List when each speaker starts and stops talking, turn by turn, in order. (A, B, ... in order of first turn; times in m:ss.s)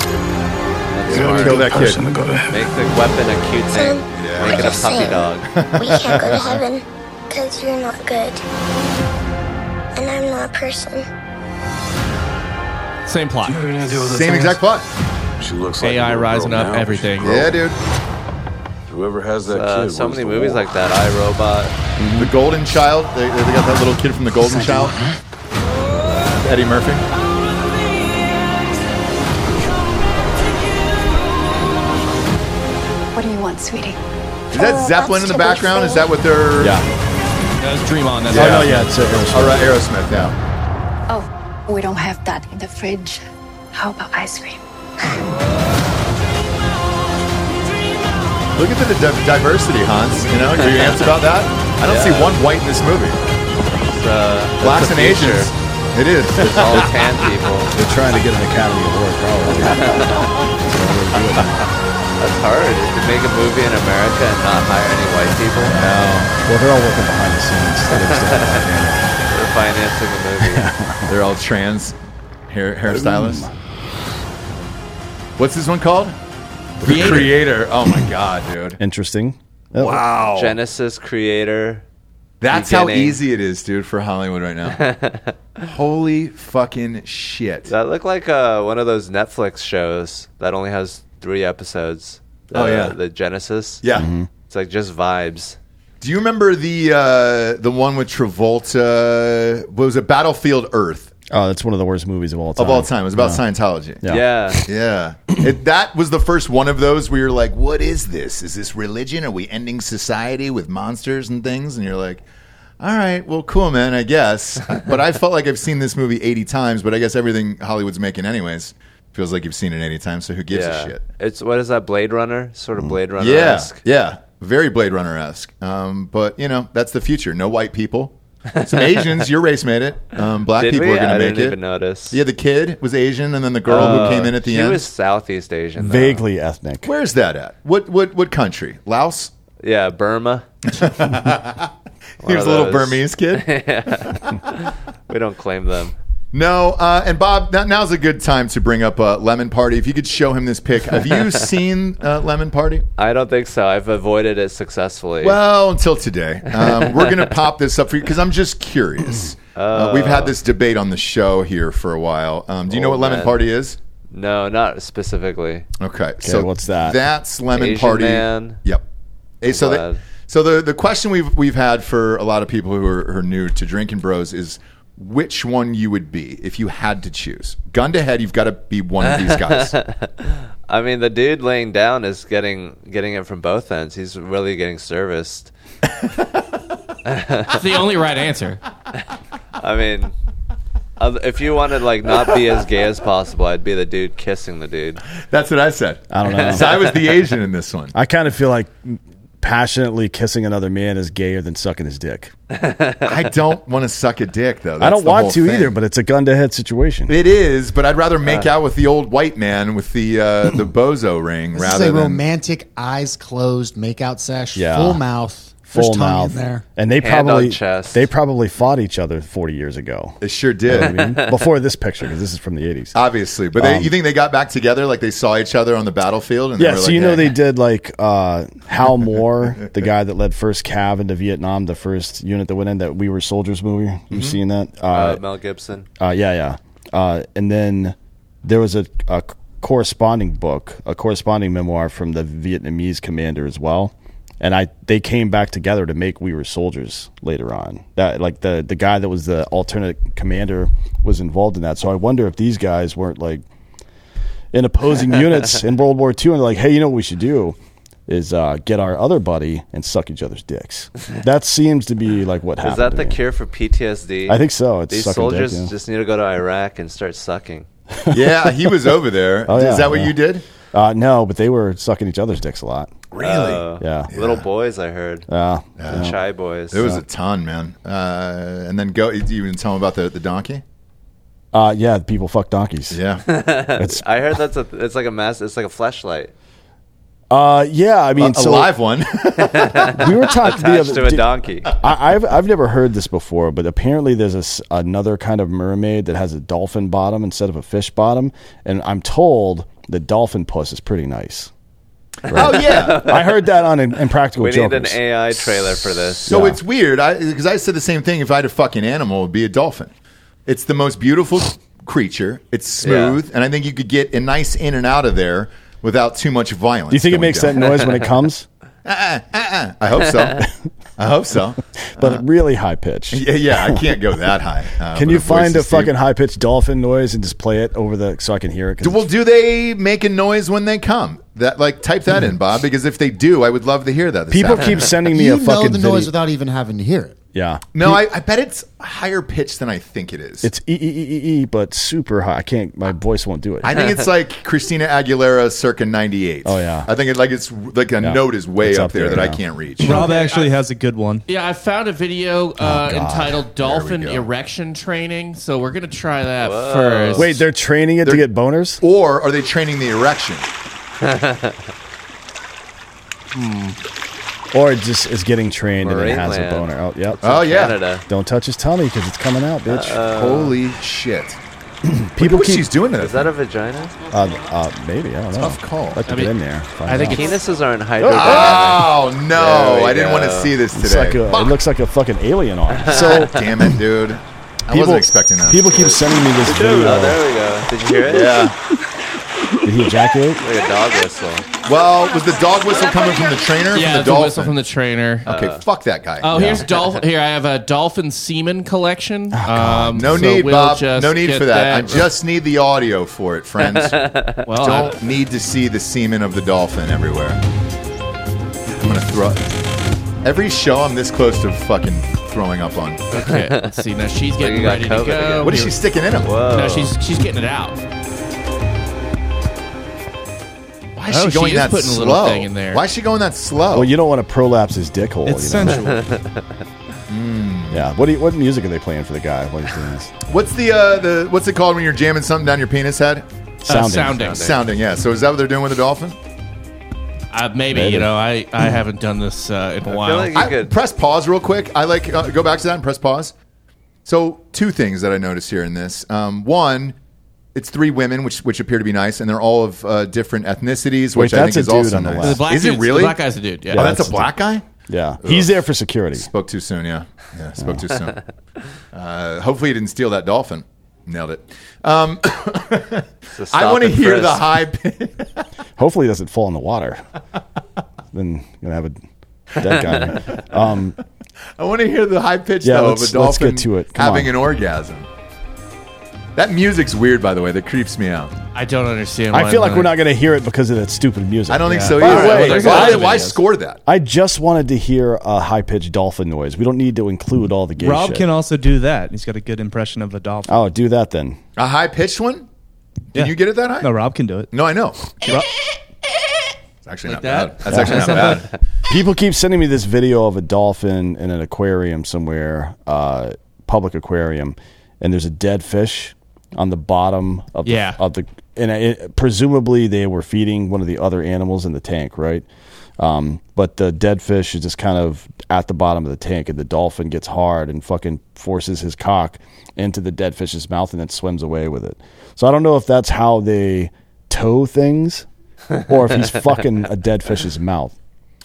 0:01.0-0:01.6 A
0:01.1-0:02.6 B
0:01.2-0:02.0 C
0:02.5-0:05.5 A
0:03.7-0:08.4 D
0:04.2-0:04.9 C
0:05.5-0:06.6 C
0:10.0-0:11.1 D
0:13.1-0:13.6 E
0:13.5-0:14.6 B
0:14.0-0:14.9 C
0:15.4-0:17.1 B
0:15.8-0:17.5 E
0:17.2-0:17.8 C
0:18.9-0:19.3 B
0:19.4-0:21.7 A
0:22.2-0:25.0 C
0:24.6-0:24.9 B
0:25.9-0:26.2 A
0:26.3-0:27.0 C
0:33.1-0:34.0 F
0:34.5-0:36.8 C
0:34.8-0:35.8 F
0:36.6-0:36.9 G
0:37.6-0:39.2 E
0:38.3-0:40.3 G
0:38.4-0:38.6 C
0:39.3-0:40.4 C
0:41.1-0:44.6 F
0:48.6-0:53.2 C
0:50.8-0:51.1 A
0:51.8-0:52.4 A
0:53.9-0:55.5 A
0:54.6-0:57.0 C
0:56.4-0:57.7 A
0:57.7-1:01.6 G
0:59.6-1:00.3 A
1:02.2-1:05.8 A
1:05.6-1:09.1 G
1:05.7-1:06.3 C
1:07.9-1:08.6 A
1:09.3-1:10.7 A
1:10.4-1:11.2 G
1:11.1-1:12.0 C
1:12.5-1:13.5 C
1:12.9-1:13.5 G
1:15.4-1:16.2 C
1:16.8-1:18.8 C
1:16.8-1:17.4 E
1:18.8-1:20.0 G
1:19.8-1:20.6 C
1:20.3-1:21.8 A
1:22.4-1:24.8 C
1:22.5-1:23.2 A
1:24.7-1:25.4 A
1:25.6-1:27.7 C
1:27.7-1:33.8 A
1:32.5-1:33.0 C
1:33.8-1:34.1 C
1:34.0-1:34.3 G
1:34.5-1:35.6 A
1:36.0-1:41.1 C
1:41.3-1:43.4 G
1:42.6-1:44.1 C
1:44.0-1:44.6 G
1:44.1-1:44.6 A
1:44.6-1:52.2 C
1:52.8-2:01.0 C
2:00.5-2:03.8 A
2:03.2-2:11.6 C
2:08.7-2:09.3 A
2:10.6-2:12.2 A
2:12.1-2:14.9 C
2:13.7-2:16.2 A
2:13.7-2:14.2 G
2:15.8-2:16.9 G
2:16.8-2:19.3 C
2:19.6-2:20.5 A
2:20.7-2:21.7 C
2:22.2-2:23.5 C
2:22.2-2:26.0 A
2:26.3-2:32.8 C
2:33.0-2:35.4 A
2:35.2-2:43.8 C
2:36.6-2:37.2 A
2:39.6-2:40.4 A
2:42.7-2:43.4 A
2:44.1-2:45.7 A
2:45.8-2:48.8 C
2:46.2-2:47.0 G
2:47.5-2:48.6 A
2:49.4-2:59.8 C
2:49.5-2:50.0 A
2:59.0-3:05.5 A
3:07.1-3:07.6 A
3:07.5-3:08.6 E
3:09.6-3:10.1 A
3:11.0-3:15.0 A
3:15.2-3:18.0 C
3:16.1-3:16.9 G
3:16.3-3:16.9 A
3:17.9-3:22.3 G
3:22.5-3:23.1 A
3:23.0-3:25.8 C
3:24.8-3:27.2 G
3:27.1-3:32.2 C
3:31.5-3:36.6 H
3:34.6-3:35.0 G
3:35.7-3:43.0 G
3:37.0-3:38.1 A
3:40.2-3:41.0 C
3:40.8-3:41.4 A
3:42.9-3:47.3 C
3:43.6-3:43.9 G
3:46.6-3:55.2 G
3:54.1-3:54.4 C
3:54.9-3:55.9 A
3:56.0-4:13.4 G
4:14.5-4:23.2 G
4:22.6-4:27.7 A
4:24.3-4:25.7 G
4:28.0-4:30.2 G
4:28.1-4:30.4 C
4:30.7-4:32.9 G
4:33.1-4:34.4 C
4:33.2-4:35.3 A
4:33.8-4:34.1 G
4:35.3-4:36.2 G
4:35.8-4:36.2 C
4:35.9-4:36.9 A
4:36.7-4:40.6 C
4:41.5-4:43.0 G
4:42.9-4:43.2 C
4:43.2-4:46.3 A
4:43.8-4:44.0 G
4:47.3-4:48.7 G
4:48.2-4:50.1 C
4:49.4-4:51.7 A
4:49.9-5:01.5 G
5:02.3-5:03.1 C
5:02.3-5:05.0 G
5:02.3-5:03.4 A
5:04.4-5:06.3 A
5:06.2-5:09.9 C
5:06.3-5:06.6 G
5:10.5-5:17.9 C
5:12.8-5:13.2 A
5:16.9-5:18.5 G
5:18.8-5:20.5 C
5:21.0-5:22.2 C
5:22.0-5:24.1 G
5:23.1-5:25.9 C
5:24.9-5:29.1 G
5:28.8-5:35.0 C
5:34.3-5:36.1 G
5:35.1-5:37.2 H
5:37.3-5:38.0 G
5:37.8-5:40.5 C
5:40.4-5:43.7 G
5:43.6-5:50.1 C
5:46.4-5:46.9 G
5:48.0-5:50.0 G
5:49.8-5:51.2 I
5:49.8-5:50.5 E
5:51.3-5:57.4 E
5:52.6-5:53.5 G
5:53.6-5:54.3 C
5:56.4-5:57.3 A
5:57.2-5:58.8 G
5:58.8-6:00.5 C
6:01.0-6:01.6 A
6:03.3-6:03.8 E
6:04.5-6:10.0 G
6:05.8-6:08.0 A
6:07.2-6:07.8 C
6:09.7-6:10.6 A
6:10.1-6:11.4 C
6:11.9-6:12.7 G
6:12.2-6:13.3 C
6:13.0-6:14.0 A
6:14.1-6:17.4 G
6:15.4-6:16.0 C
6:16.1-6:16.3 E
6:16.9-6:17.3 E
6:17.0-6:20.6 A
6:18.0-6:18.6 G
6:18.0-6:21.6 C
6:20.7-6:23.8 G
6:22.8-6:23.3 A
6:22.9-6:25.9 C
6:24.7-6:27.2 G
6:25.7-6:28.5 A
6:28.0-6:28.6 C
6:29.6-6:30.4 G
6:30.4-6:31.5 A
6:31.6-6:34.6 C
6:33.7-6:35.3 E
6:35.2-6:36.6 C
6:35.3-6:35.6 A
6:36.2-6:42.1 E
6:36.3-6:36.6 G
6:39.3-6:40.4 G
6:39.9-6:44.0 C
6:43.6-6:44.5 A
6:44.5-6:45.0 E
6:44.6-6:47.4 C
6:48.7-6:49.4 C
6:50.2-6:53.0 C
6:53.1-6:55.8 E
6:53.2-6:53.8 A
6:54.4-6:55.6 A
6:55.4-6:56.3 C
6:56.2-6:56.9 A
6:56.5-6:57.8 E
7:01.0-7:03.9 C
7:01.1-7:02.8 E
7:03.7-7:05.9 G
7:05.3-7:06.0 I
7:05.8-7:06.5 A
7:07.1-7:07.8 C
7:07.7-7:10.1 G
7:10.3-7:13.3 C
7:13.7-7:14.3 G
7:13.7-7:14.5 E
7:14.2-7:16.2 C
7:14.2-7:14.6 A
7:17.3-7:20.4 E
7:17.7-7:18.8 G
7:19.9-7:20.8 A
7:20.4-7:23.3 C
7:24.0-7:27.0 C
7:27.6-7:34.6 C
7:31.1-7:32.4 G
7:32.2-7:33.9 E
7:33.7-7:34.3 G
7:34.9-7:36.3 G
7:35.2-7:35.6 C
7:36.2-7:38.2 C
7:37.6-7:37.8 G
7:38.9-7:45.5 C
7:43.3-7:44.4 A
7:45.8-7:47.0 G
7:48.1-7:49.0 G
7:49.6-7:51.0 G
7:51.6-7:55.1 C
7:52.6-7:54.4 G
7:56.4-7:58.3 C
7:58.5-8:00.0 E
7:59.3-8:03.0 G
8:01.5-8:03.8 C
8:01.9-8:02.4 I
8:01.9-8:03.4 E
8:03.9-8:08.3 G
8:07.8-8:10.6 I
8:10.5-8:11.4 G
8:11.6-8:12.5 C
8:13.1-8:14.0 C
8:13.1-8:14.5 I
8:14.5-8:15.4 C
8:16.8-8:18.6 C
8:17.1-8:18.4 E
8:18.9-8:32.5 G
8:27.6-8:28.0 E
8:33.0-8:45.3 G
8:45.8-8:48.0 G